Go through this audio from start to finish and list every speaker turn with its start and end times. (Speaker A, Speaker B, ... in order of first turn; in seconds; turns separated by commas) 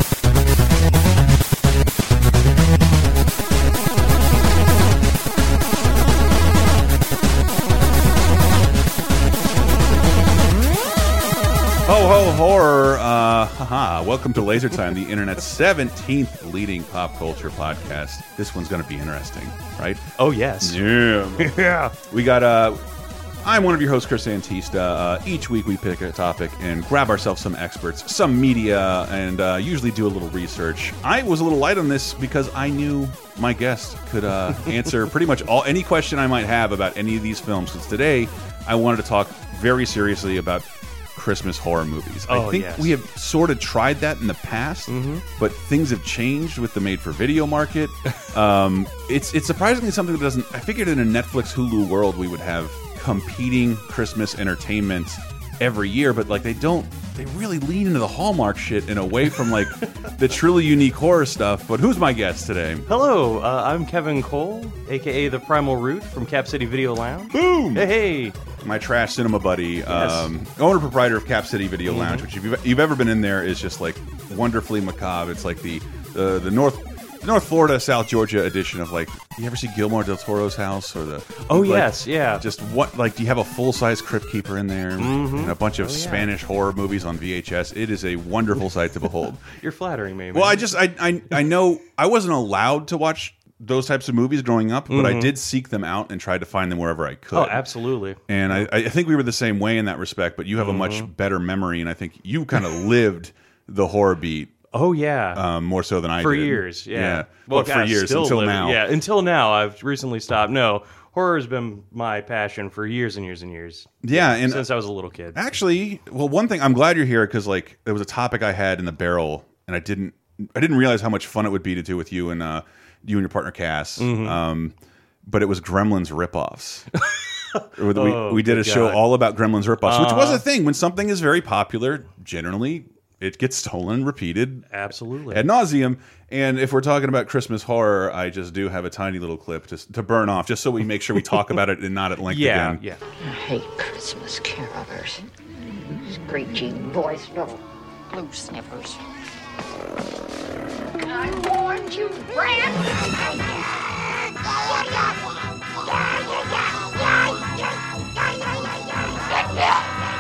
Speaker A: 11.9-20.1, Speaker B: 20.2-20.8, Speaker A: 20.6-22.8, Speaker B: 21.4-21.9, Speaker A: 23.4-62.9, Speaker B: 42.3-42.9, Speaker B: 44.9-45.2, Speaker B: 62.9-68.4, Speaker A: 67.3-67.9, Speaker A: 68.6-89.4, Speaker B: 69.9-70.3, Speaker B: 71.9-72.3, Speaker B: 81.5-82.4, Speaker B: 85.0-86.3, Speaker B: 89.5-90.6, Speaker A: 90.3-97.6, Speaker B: 94.9-95.3, Speaker B: 97.3-98.7, Speaker A: 98.3-104.5, Speaker B: 100.6-101.1, Speaker B: 104.7-105.4, Speaker A: 105.3-108.8, Speaker B: 106.2-115.4, Speaker A: 114.0-114.7, Speaker A: 115.3-126.9, Speaker B: 124.0-124.4, Speaker B: 127.5-129.0, Speaker A: 127.7-134.7, Speaker B: 129.8-130.4, Speaker B: 134.7-135.4, Speaker A: 135.3-142.8, Speaker B: 142.3-143.0, Speaker C: 143.2-145.2, Speaker C: 145.8-149.0, Speaker C: 151.0-157.6, Speaker C: 158.2-159.8